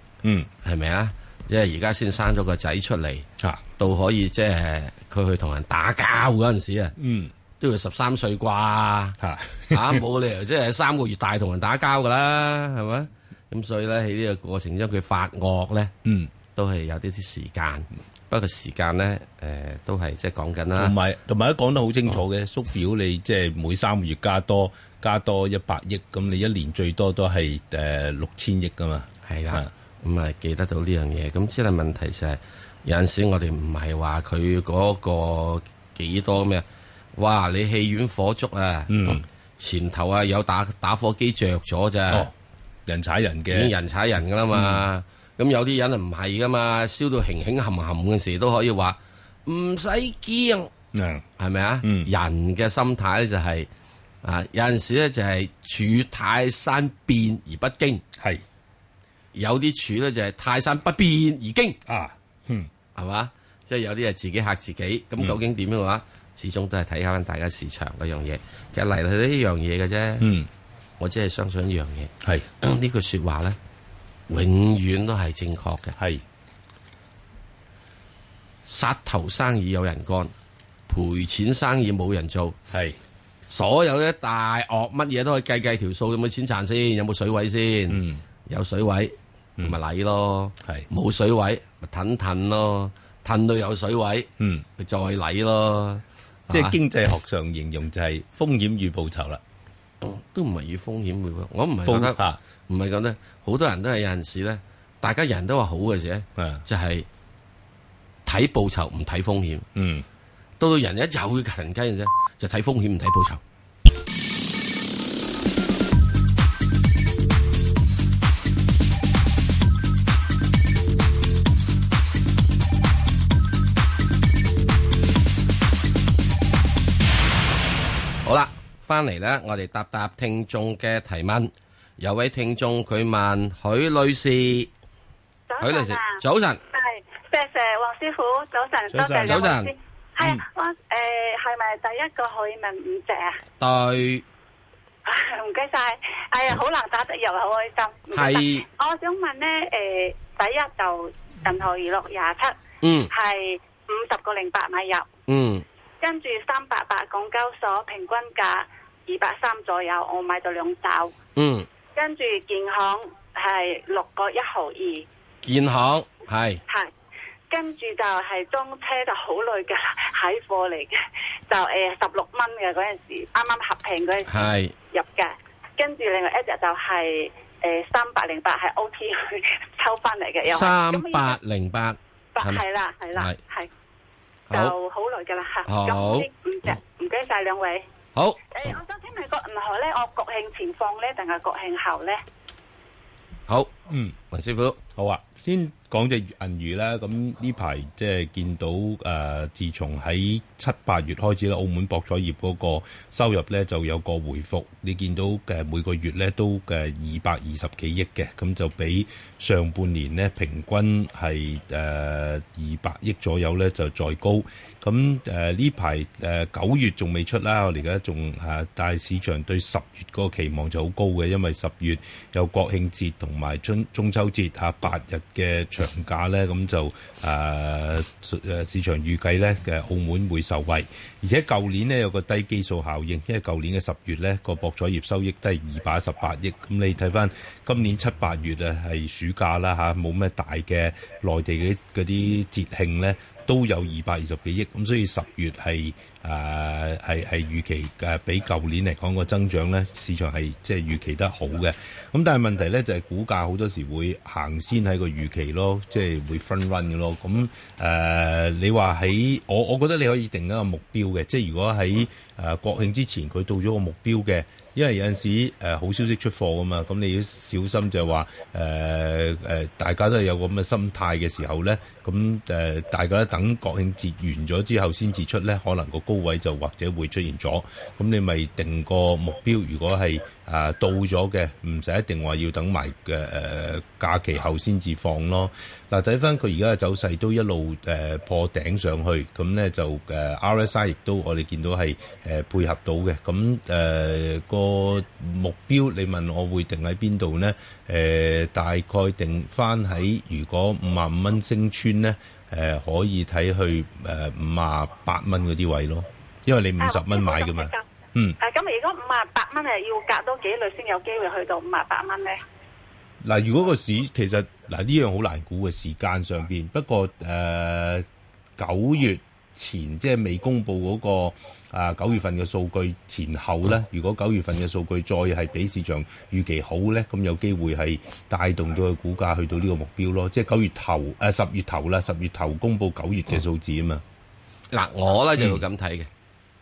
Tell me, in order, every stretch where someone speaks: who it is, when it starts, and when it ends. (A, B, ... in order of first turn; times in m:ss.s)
0:00.2-0:00.5 A
0:00.6-0:03.2 B
0:03.4-0:03.7 A
0:03.8-0:06.9 B
0:07.0-0:07.3 A
0:07.6-0:09.2 B
0:09.2-0:10.0 A
0:09.7-0:15.9 B
0:16.0-0:16.3 A
0:16.5-0:20.9 B
0:20.7-0:29.7 A
0:29.2-0:42.3 B
0:38.9-0:39.2 A
0:42.8-0:43.7 A
0:43.5-0:50.7 B
0:44.5-0:44.9 A
0:50.9-0:51.2 A
0:51.4-0:53.7 B
0:51.8-0:52.1 A
0:54.2-0:58.0 B
0:58.2-0:58.4 A
0:59.3-1:01.8 B
1:01.8-1:02.7 A
1:03.0-1:10.3 B
1:10.2-1:10.5 A
1:11.0-1:13.6 B
1:14.3-1:16.0 B
1:16.0-1:16.2 A
1:18.6-1:20.3 B
1:20.9-1:22.6 B
1:22.7-1:23.0 A
1:23.5-1:36.8 B
1:27.9-1:28.2 A
1:34.4-1:34.6 A
1:36.5-1:39.4 A
1:40.0-1:47.0 B
1:41.8-1:42.4 A
1:46.4-1:46.6 A
1:48.2-1:49.6 B
1:49.7-1:50.0 A
1:50.6-1:53.4 B
2:08.2-2:14.7 B
2:15.5-2:16.2 C
2:15.6-2:16.6 B
2:16.7-2:23.4 C
2:18.9-2:19.5 A
2:19.2-2:19.7 B
2:23.6-2:24.2 B
2:25.0-2:32.5 C
2:28.1-2:28.6 B
2:32.8-2:33.1 B
2:33.1-2:35.1 C
2:35.3-2:35.6 B
2:36.0-2:41.1 C
2:41.4-2:41.6 B
2:42.0-2:45.0 C
2:45.4-2:46.6 B
2:47.5-2:51.0 C
2:51.5-2:54.3 C
2:54.3-2:54.7 B
2:54.9-3:01.4 C
3:00.4-3:02.6 B
3:02.4-3:03.7 C
3:04.5-3:07.8 C
3:05.7-3:06.3 B
3:08.1-3:08.4 B
3:08.5-3:12.2 C
3:13.9-3:14.2 A
3:14.3-3:14.8 B
3:15.0-5:08.4 A
5:06.8-5:07.8 C
5:08.4-5:12.4 C
5:13.2-5:18.0 A
5:18.6-5:34.0 A
5:34.7-5:36.1 B
5:35.4-5:35.6 A